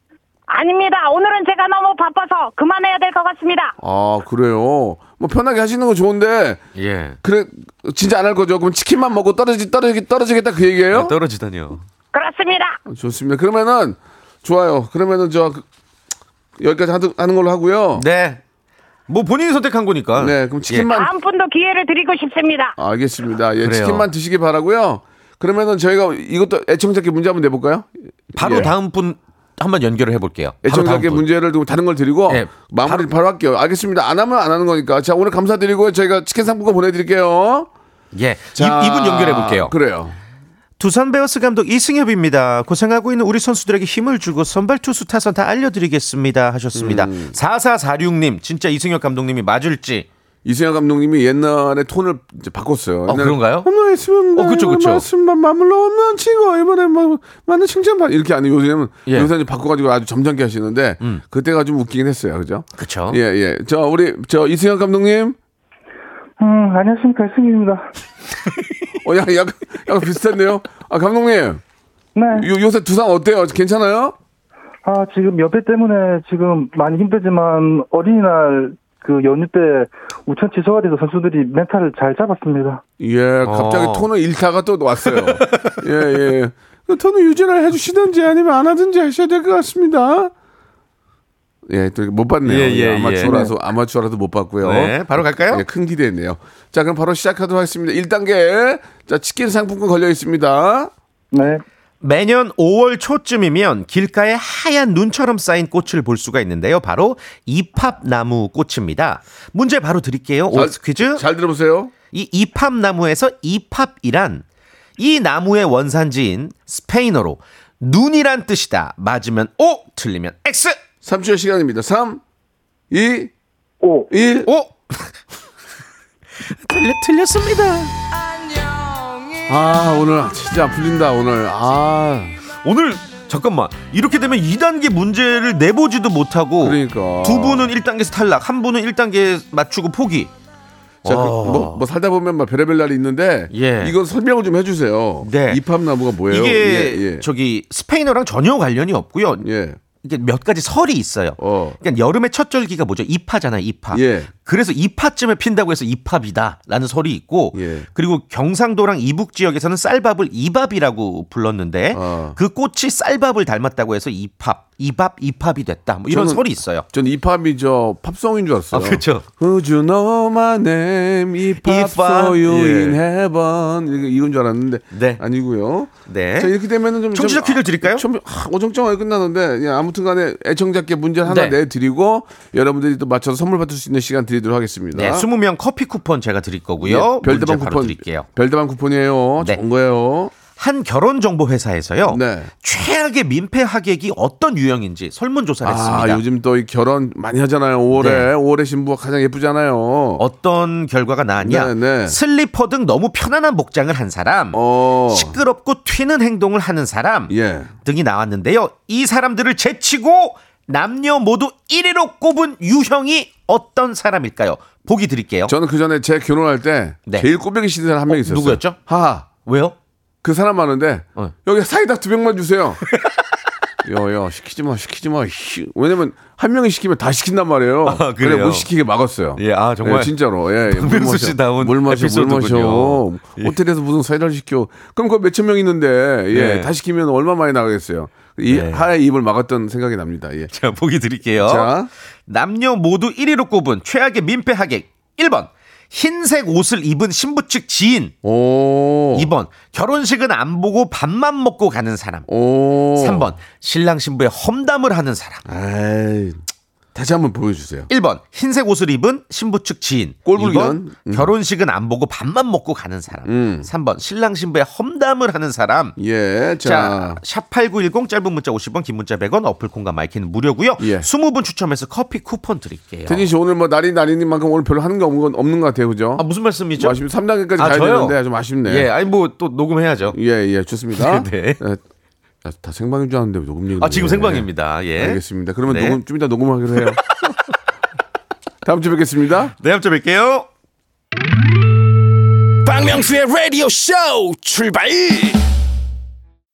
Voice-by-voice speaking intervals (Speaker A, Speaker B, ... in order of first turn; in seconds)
Speaker A: 0.5-3.7, 12.1-12.8, 20.9-22.7
Speaker B: 3.8-6.6, 7.2-11.2, 12.9-15.6, 16.6-18.1, 20.2-21.1, 22.8-28.7, 30.6-37.7, 38.6-40.2, 46.7-47.4, 50.5-65.4, 69.0-71.6, 72.3-74.1, 83.0-90.3, 91.7-100.9, 110.5-111.9, 121.0-122.2, 122.9-123.3, 124.1-124.5, 129.5-132.4, 136.6-137.7, 141.0-147.3, 149.4-149.8, 151.4-151.8, 153.9-154.3, 157.5-157.9, 161.9-162.4, 166.1-185.3, 186.8-190.3, 192.1-192.5, 195.6-200.2, 201.4-202.2, 204.5-205.4, 207.3-207.7, 215.5-219.3, 220.2-222.8, 223.8-240.5, 241.4-241.9, 248.2-249.3, 252.3-253.3, 255.5-256.4, 256.9-257.9, 260.3-261.3, 263.2-263.7, 266.0-267.2, 270.8-271.1, 273.1-276.2, 276.8-278.9, 280.1-281.8, 282.4-287.0, 288.6-289.5
Speaker C: 6.8-7.2, 10.9-11.8, 17.9-18.4, 19.1-20.9, 23.6-24.1, 28.4-31.3, 32.3-33.0, 38.1-39.8, 40.8-50.1, 53.1-53.7, 54.4-55.1, 59.1-59.3, 62.8-63.2, 83.4-84.1, 85.0-85.8, 92.4-93.5, 94.6-95.7, 102.0-111.3, 112.1-114.5, 115.0-120.8, 124.5-125.1, 126.6-127.9, 132.6-140.3, 141.0-141.8, 143.5-144.0, 145.2-145.6, 146.2-149.5, 150.0-166.9, 168.7-169.3, 171.6-173.0, 174.9-175.2, 176.1-176.6, 177.1-178.1, 181.2-181.6, 184.9-188.3, 190.5-196.2, 197.9-198.3, 200.2-215.6, 218.1-218.8, 219.4-219.8, 227.8-228.7, 229.4-233.6, 236.3-236.7, 238.5-238.9, 240.5-241.8, 242.3-248.2, 249.1-252.3, 252.9-255.4, 257.9-266.0, 266.6-273.3, 276.2-277.0, 277.6-280.2, 280.9-281.6, 283.8-286.0, 286.8-287.3, 289.6-290.5
Speaker D: 66.4-67.9, 72.2-72.5, 74.8-82.8, 93.2-93.5, 101.3-101.6, 123.8-124.1
Speaker E: 292.7-295.4